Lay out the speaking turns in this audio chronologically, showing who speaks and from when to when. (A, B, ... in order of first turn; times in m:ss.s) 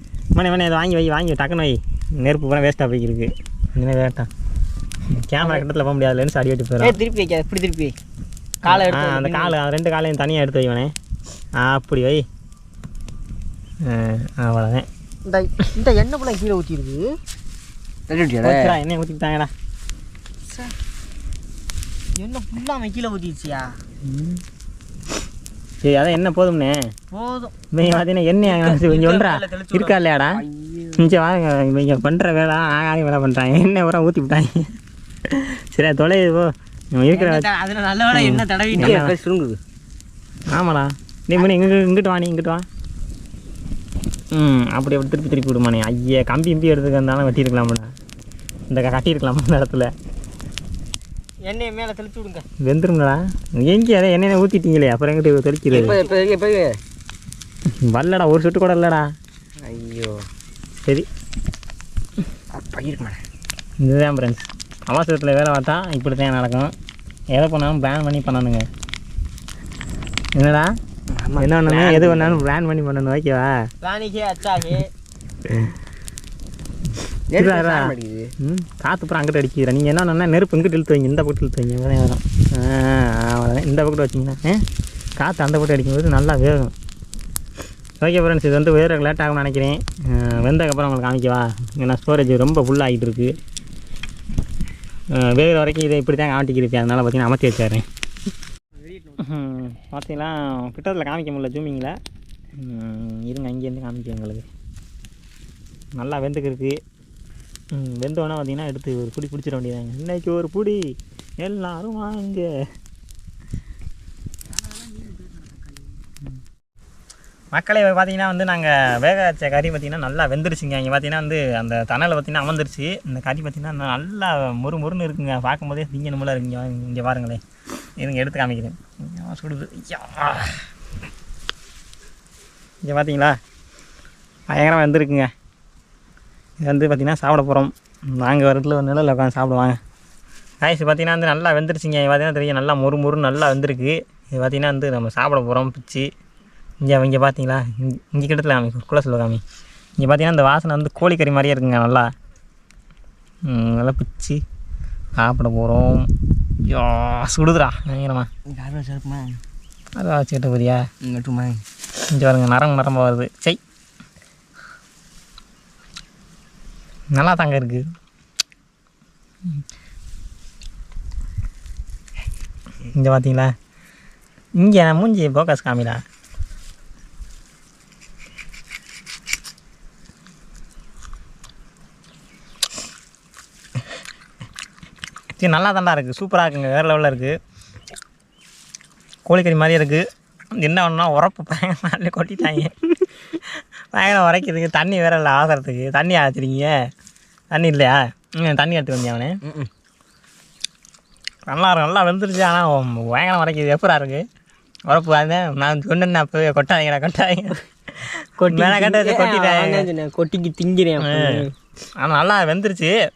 0:00.3-0:04.3 A
0:05.1-0:07.0 A
0:06.8-0:07.9 B
0:08.6-0:09.6 B
0:08.7-0:10.9 A
0:11.6-0:12.2 A
0:13.8-0:14.9 A
0:15.2-0:17.2 B
0:18.1-0:18.8 C
0:18.4-0:19.5 A
0:22.2-0:23.8 B
0:24.0-0:24.4 A
0:25.8-0:26.8 A
0:27.1-0:27.5 B
0:27.7-0:30.4 A
0:28.6-0:30.0 B
0:30.3-0:31.1 C
0:31.0-0:34.7 A
0:35.3-0:37.5 A
0:37.1-0:39.0 B
0:38.1-0:39.1 A
0:38.1-0:39.6 C
0:40.5-0:42.6 A
0:44.3-0:47.9 A
0:48.7-0:49.9 A
0:51.4-0:52.4 B
0:52.6-0:56.0 A
0:55.7-0:56.8 C
0:55.8-0:56.1 B
0:57.8-0:59.0 A
0:59.6-1:00.2 C
1:02.5-1:03.2 C
1:03.8-1:06.7 A
1:07.3-1:08.6 A
1:10.3-1:10.7 A
1:11.1-1:12.4 C
1:11.4-1:13.5 A
1:13.8-1:14.9 B
1:17.3-1:18.3 C
1:17.3-1:24.6 A
1:25.2-1:26.7 A
1:28.0-1:33.4 A
1:35.1-1:37.8 A
1:38.9-1:39.2 B
1:39.2-1:42.0 A
1:42.6-1:44.4 A
1:46.0-1:46.8 A
1:47.7-1:52.5 A
1:54.8-1:55.3 B
1:57.5-2:07.4 A
2:08.0-2:10.6 A
2:12.8-2:13.4 A
2:14.5-2:15.3 A
2:16.6-2:19.8 A
2:20.6-2:26.1 A
2:26.8-2:29.4 A
2:30.0-2:32.1 A
2:33.5-2:34.4 A
2:35.2-2:36.1 A
2:36.6-2:38.3 A
2:38.5-2:39.4 C
2:40.0-2:40.8 A
2:41.0-2:41.6 C
2:42.1-2:43.6 A
2:47.1-2:47.8 A
2:52.9-2:53.5 A
2:54.6-2:56.0 A
3:05.4-3:07.4 A
3:09.2-3:10.0 A
3:10.5-3:13.4 A
3:13.9-3:16.7 A
3:17.5-3:19.4 A
3:19.4-3:19.7 C
3:21.5-3:24.2 A
3:24.9-3:29.8 A
3:28.4-3:31.5 B
3:31.0-3:31.4 A
3:32.0-3:32.9 A